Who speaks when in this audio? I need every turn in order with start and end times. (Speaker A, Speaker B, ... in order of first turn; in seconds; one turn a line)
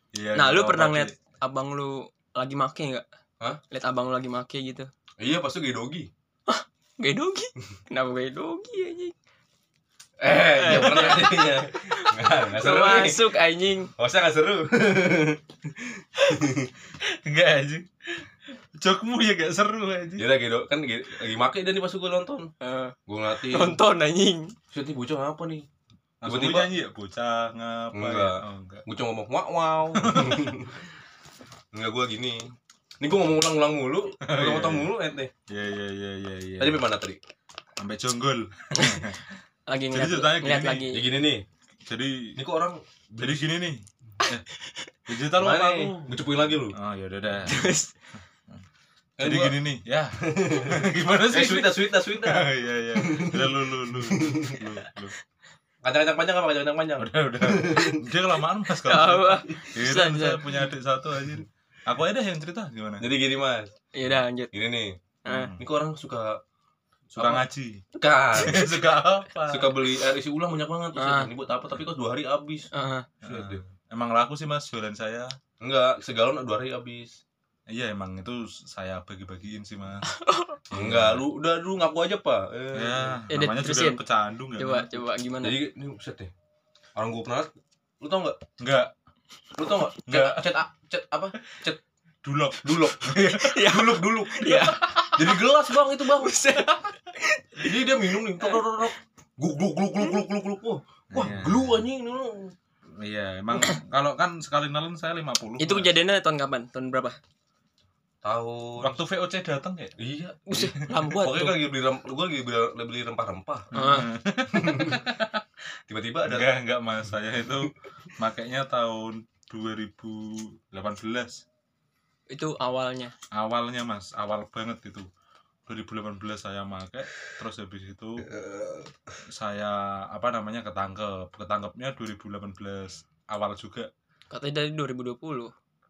Speaker A: 0.1-1.1
Speaker B: 0.3-3.0
Speaker B: 3.7-4.9
Speaker C: 5.2-6.1
Speaker B: 6.5-9.1
Speaker C: 10.2-13.3
Speaker B: 10.5-13.9
Speaker C: 14.0-16.7
Speaker A: 17.0-20.3
Speaker C: 20.2-22.5
Speaker B: 22.6-22.9
Speaker C: 23.1-23.8
Speaker B: 23.5-24.5
Speaker C: 24.7-25.7
Speaker A: 26.2-28.8
Speaker C: 26.2-26.7
Speaker C: 27.9-30.8
Speaker A: 29.9-30.6
Speaker C: 31.7-35.3
Speaker A: 34.2-34.9
Speaker A: 35.5-36.8
Speaker C: 36.6-37.2
Speaker A: 37.8-39.2
Speaker B: 38.8-39.1
Speaker B: 39.7-41.1
Speaker A: 39.9-40.9
Speaker C: 40.9-41.5
Speaker A: 41.9-42.4
Speaker C: 42.4-43.5
Speaker A: 43.2-44.5
Speaker B: 44.2-44.9
Speaker A: 45.1-46.2
Speaker C: 45.4-46.8
Speaker A: 46.7-47.7
Speaker B: 47.5-47.9
Speaker C: 49.2-54.6
Speaker A: 49.2-55.1
Speaker C: 55.8-58.0
Speaker A: 57.0-63.1
Speaker B: 58.8-60.6
Speaker C: 63.0-63.7
Speaker B: 63.9-64.5
Speaker C: 64.5-66.4
Speaker B: 65.3-65.5
Speaker A: 65.3-65.7
Speaker C: 67.1-67.4
Speaker A: 67.2-69.8
Speaker C: 68.0-68.8
Speaker C: 69.5-72.7
Speaker B: 71.0-71.3
Speaker B: 72.7-73.1
Speaker A: 73.2-75.3
Speaker C: 73.2-73.6
Speaker C: 75.6-77.2
Speaker A: 77.7-80.1
Speaker B: 80.1-80.6
Speaker A: 80.7-81.2
Speaker C: 80.7-83.2
Speaker A: 82.7-85.0
Speaker B: 83.3-84.0
Speaker B: 84.6-85.6
Speaker C: 85.4-86.3
Speaker C: 87.0-87.5
Speaker C: 88.0-88.4
Speaker A: 88.6-88.9
Speaker C: 89.6-91.8
Speaker A: 90.0-90.5
Speaker A: 92.2-93.7
Speaker C: 92.6-96.4
Speaker B: 93.3-95.4
Speaker B: 96.0-98.7
Speaker C: 97.6-102.5
Speaker A: 101.1-101.8
Speaker A: 103.0-105.9
Speaker B: 103.5-103.8
Speaker B: 105.6-107.2
Speaker C: 108.2-109.0
Speaker A: 108.8-109.9
Speaker C: 110.0-113.7
Speaker B: 110.5-111.6
Speaker A: 113.7-115.4
Speaker B: 113.7-114.1
Speaker C: 114.5-115.1
Speaker C: 115.9-116.5
Speaker A: 116.2-121.4
Speaker B: 122.3-123.1
Speaker A: 123.3-125.1
Speaker A: 125.7-128.3
Speaker C: 128.3-128.9
Speaker A: 129.3-133.9
Speaker B: 134.3-135.5